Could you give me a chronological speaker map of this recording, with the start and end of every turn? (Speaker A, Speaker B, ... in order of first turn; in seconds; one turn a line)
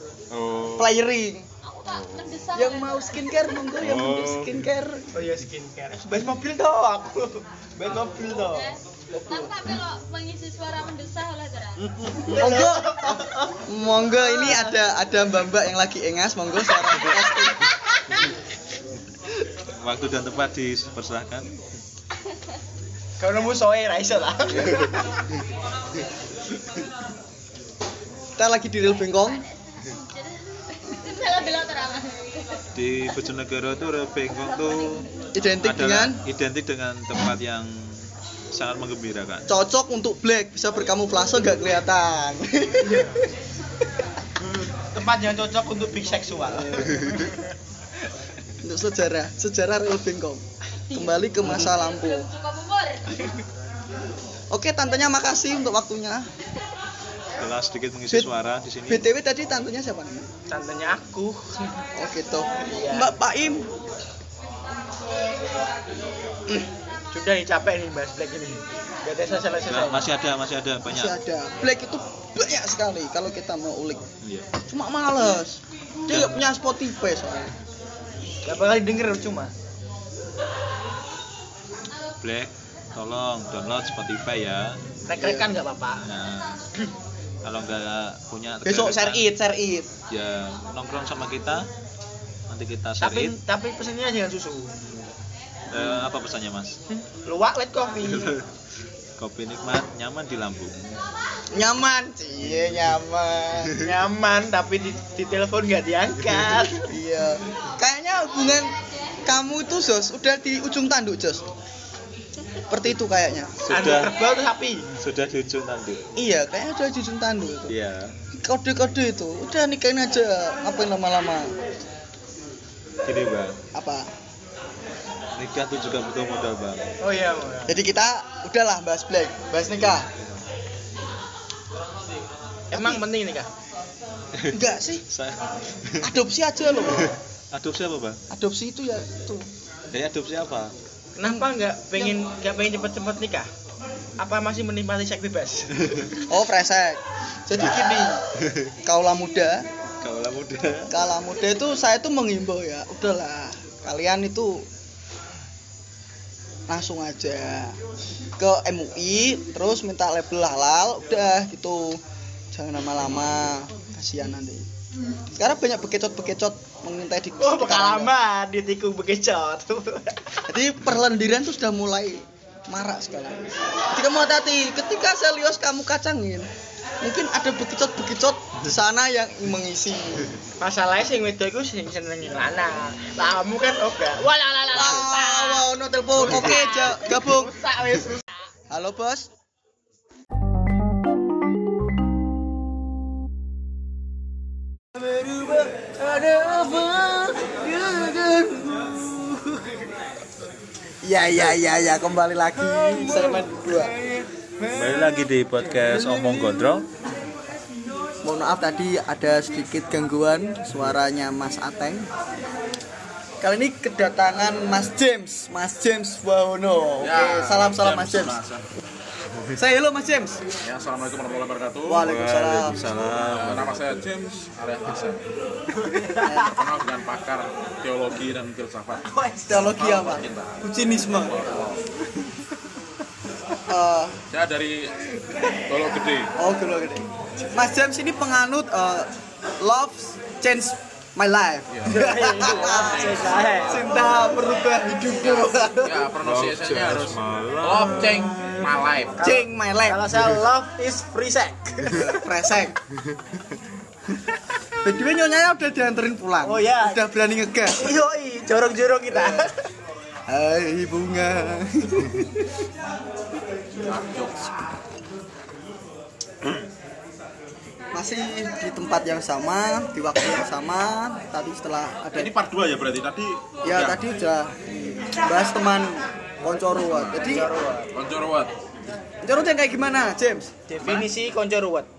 Speaker A: 0.3-1.0
Speaker B: 0.8-1.5
Speaker C: 1.6-3.6
Speaker A: 1.8-2.2
Speaker B: 2.5-5.0
Speaker A: 3.8-4.6
Speaker D: 5.1-8.8
Speaker B: 9.1-9.8
Speaker C: 9.2-11.8
Speaker D: 11.8-14.8
Speaker B: 12.3-17.7
Speaker A: 19.8-21.5
Speaker D: 23.2-25.0
Speaker B: 28.4-29.4
Speaker C: 30.8-32.5
Speaker A: 32.7-35.1
Speaker B: 35.3-36.2
Speaker A: 35.6-39.5
Speaker B: 39.5-43.2
Speaker D: 42.8-43.2
Speaker D: 44.8-47.5
Speaker B: 46.5-47.1
Speaker B: 48.6-52.3
Speaker C: 51.8-53.1
Speaker B: 54.5-56.3
Speaker A: 57.4-59.1
Speaker B: 58.9-60.3
Speaker D: 60.5-61.6
Speaker B: 62.0-63.7
Speaker D: 62.6-63.1
Speaker D: 67.1-70.1
Speaker A: 69.6-71.2
Speaker B: 70.8-74.0
Speaker B: 74.7-77.5
Speaker A: 76.1-76.4
Speaker D: 78.4-79.5
Speaker A: 82.2-84.8
Speaker D: 85.1-86.0
Speaker B: 85.2-85.5
Speaker A: 86.0-86.6
Speaker A: 87.4-89.3
Speaker B: 88.6-89.9
Speaker A: 90.1-91.7
Speaker A: 92.5-93.4
Speaker D: 93.0-94.8
Speaker A: 95.7-96.8
Speaker D: 96.9-98.4
Speaker A: 98.1-98.4
Speaker A: 99.2-101.0
Speaker B: 101.5-103.8
Speaker D: 103.8-106.9
Speaker B: 106.8-111.4
Speaker B: 112.7-113.5
Speaker A: 113.6-114.2
Speaker D: 113.7-114.9
Speaker A: 114.9-116.0
Speaker B: 116.2-117.7
Speaker A: 117.7-118.1
Speaker B: 118.4-121.5
Speaker A: 123.0-123.5
Speaker B: 123.7-124.1
Speaker A: 125.3-126.9
Speaker D: 127.0-127.8
Speaker B: 127.7-130.1
Speaker D: 132.7-133.5
Speaker A: 134.3-136.1
Speaker B: 134.5-135.1
Speaker B: 136.0-137.1
Speaker A: 136.9-138.2
Speaker B: 138.3-139.5
Speaker A: 139.9-140.7
Speaker D: 141.2-143.5
Speaker D: 144.2-145.9
Speaker B: 146.2-148.3
Speaker B: 148.8-149.7
Speaker A: 150.0-150.9
Speaker B: 150.9-154.7
Speaker B: 156.7-157.8
Speaker B: 158.4-162.0
Speaker B: 162.5-164.7
Speaker B: 165.4-168.1
Speaker D: 167.4-170.2
Speaker B: 170.5-176.5
Speaker B: 177.0-180.3
Speaker D: 180.6-185.7
Speaker B: 184.7-187.6
Speaker D: 186.2-188.4
Speaker B: 188.7-189.3
Speaker B: 195.7-199.0
Speaker B: 201.0-203.9
Speaker D: 202.6-205.2
Speaker A: 204.7-206.9
Speaker B: 206.0-206.6
Speaker B: 208.2-212.1
Speaker B: 213.4-218.4
Speaker E: 217.0-218.6
Speaker B: 219.5-220.4
Speaker E: 220.6-222.0
Speaker B: 221.9-222.8
Speaker A: 222.0-224.0
Speaker E: 223.3-225.2
Speaker D: 225.8-226.6
Speaker B: 226.2-226.6
Speaker E: 226.4-230.6
Speaker D: 229.1-229.7
Speaker B: 229.5-231.3
Speaker E: 231.1-231.8
Speaker B: 233.7-234.2
Speaker E: 234.3-234.9
Speaker E: 235.7-236.3
Speaker B: 236.4-246.1
Speaker E: 241.7-244.3
Speaker D: 241.9-243.8
Speaker E: 245.2-249.2
Speaker A: 246.2-248.7
Speaker B: 249.2-250.1
Speaker D: 249.2-252.2
Speaker B: 251.9-252.8
Speaker B: 254.8-257.9
Speaker D: 256.4-257.0
Speaker D: 257.7-259.6
Speaker B: 259.1-259.5
Speaker B: 260.3-262.6
Speaker E: 263.8-264.5
Speaker B: 267.9-272.3
Speaker E: 272.1-274.0
Speaker B: 273.6-277.5
Speaker E: 276.9-277.4
Speaker D: 277.2-277.9
Speaker E: 277.9-278.5
Speaker B: 279.2-280.5
Speaker D: 280.7-281.9